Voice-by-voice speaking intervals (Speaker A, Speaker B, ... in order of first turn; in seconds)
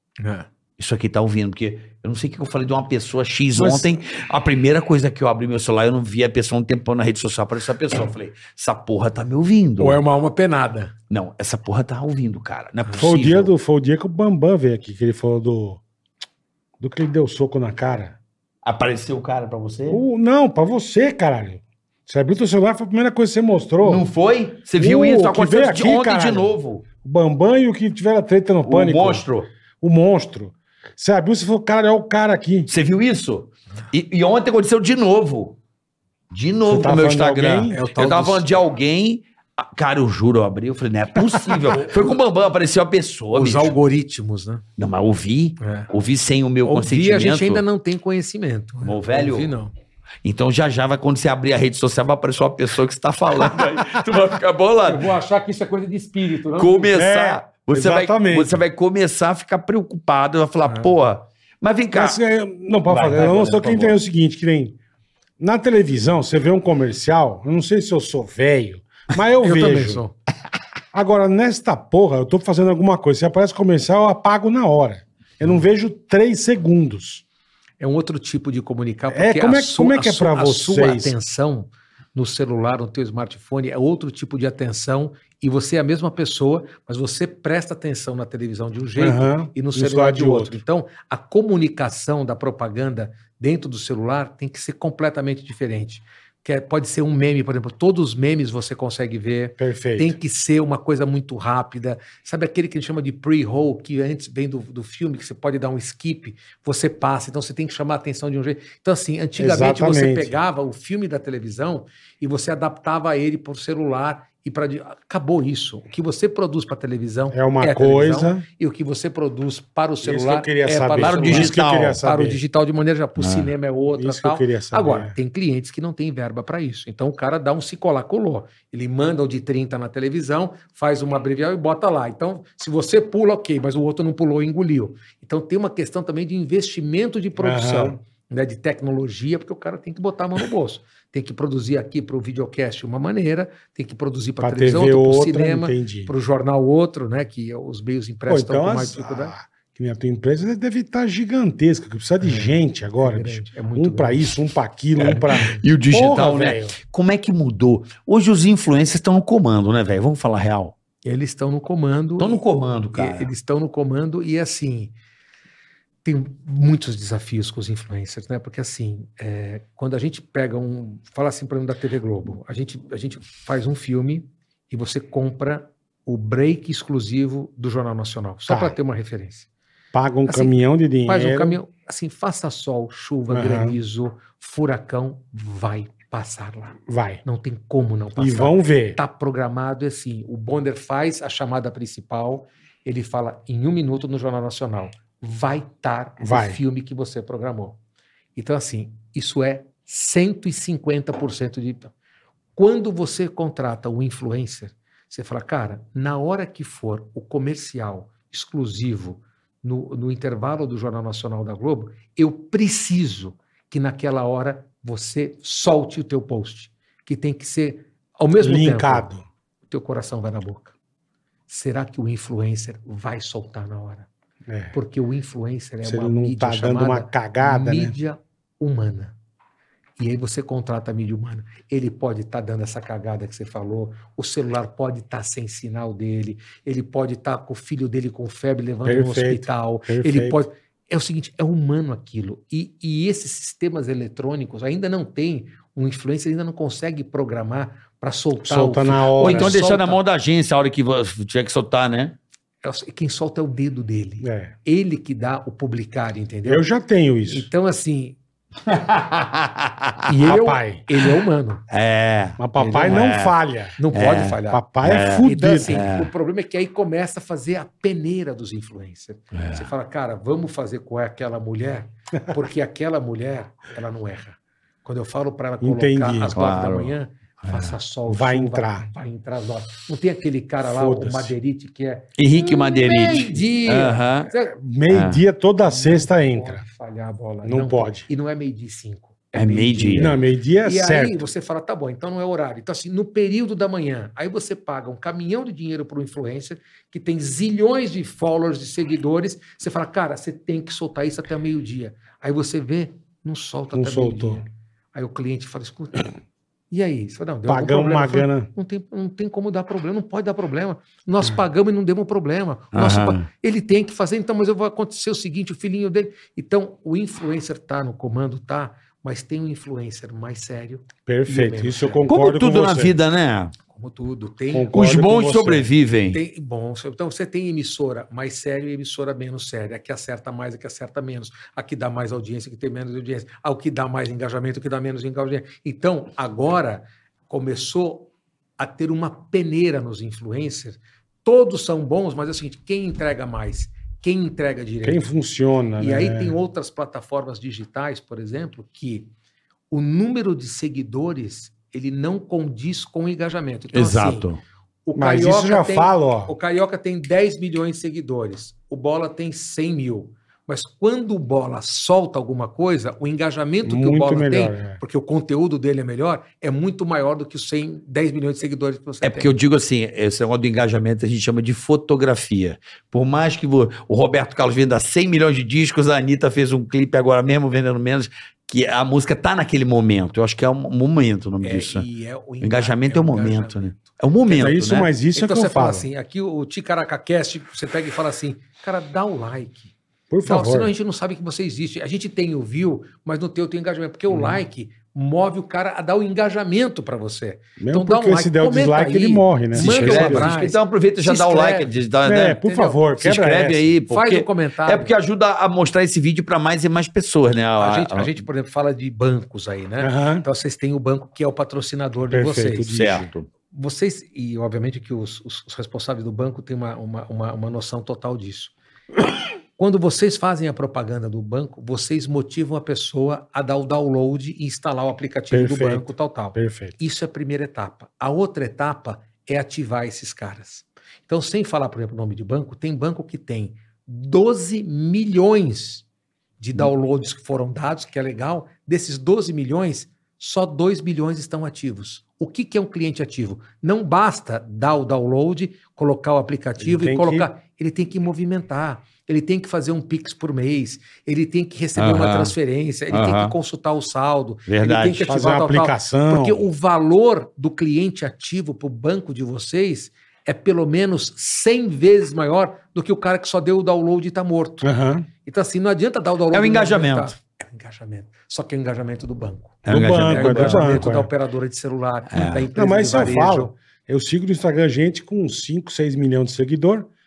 Speaker A: 0.2-0.5, 9.8-10.9, 37.7-38.5, 43.3-44.6, 45.6-45.9, 46.6-49.7, 54.9-57.0, 69.4-70.1, 77.8-149.3, 152.2-154.3, 155.0-155.6, 161.0-164.9, 166.0-179.5, 180.3-197.8, 198.3-201.9, 202.6-219.1, 219.7-220.8, 221.5-224.1, 224.7-229.2, 230.0-250.0, 252.6-256.7, 257.2-258.2, 260.1-261.6, 262.6-263.1, 263.8-284.6, 285.6-306.1, 306.7-322.1, 323.7-324.8, 326.1-345.1, 345.8-349.1, 349.7-354.3, 354.9-369.3, 381.4-384.5, 385.1-401.8, 402.4-402.8, 403.9-404.9, 407.6-412.8, 413.5-418.5, 419.6-435.9, 436.4-464.7, 465.2-473.6
Speaker B: 0.8-10.0, 11.1-13.5, 18.6-20.0, 23.8-26.9, 28.6-29.5, 32.7-35.6, 36.3-43.8, 44.8-47.6, 48.8-49.5, 50.2-55.1, 56.6-62.2, 62.9-64.0, 121.0-122.0, 123.2-123.5, 155.0-160.8, 162.2-163.3, 249.2-252.2, 258.7-260.0, 261.7-263.4, 263.9-266.1, 269.3-269.7, 276.3-277.8, 282.2-284.3, 284.9-285.2, 289.4-290.1, 312.7-313.2, 322.1-323.5, 324.7-326.2, 353.7-354.4, 369.0-381.9, 382.4-384.9, 399.6-402.4, 403.0-408.1, 412.7-413.3, 451.8-452.4, 452.9-453.4, 454.5-455.1, 466.3-467.1, 469.6-470.9, 472.1-472.5
Speaker C: 3.6-3.9, 13.0-15.8, 16.8-18.2, 19.9-24.1, 24.8-29.2, 29.8-32.7, 36.6-37.8, 56.9-58.6, 61.9-64.8, 65.4-70.0, 70.9-77.2, 79.1-81.2, 89.0-90.6, 99.6-100.2, 109.4-110.4, 117.3-118.5, 120.0-122.4, 123.9-125.2, 137.4-138.0, 144.4-146.1, 148.3-156.8, 178.5-178.8, 179.9-181.6, 183.3-183.8, 186.9-187.2, 188.2-189.0, 196.2-196.6, 218.4-219.2, 224.5-224.8, 225.8-227.9, 238.8-240.4, 248.4-249.6, 254.2-254.6, 256.5-257.5, 260.3-260.8, 262.4-263.8, 264.5-265.9, 275.6-276.4, 278.1-278.9, 280.6-281.3, 284.6-286.6, 287.4-288.1, 289.9-291.2, 303.7-304.4, 307.5-308.5, 321.1-323.0, 324.5-325.7, 344.8-346.4, 355.0-356.3, 363.6-364.8, 384.3-385.9, 390.1-390.7, 397.6-400.3, 402.1-403.7, 409.8-410.3, 412.1-413.1, 425.3-426.7, 446.6-447.3, 455.1-456.4, 464.6-465.1, 469.7-471.1, 472.6-476.9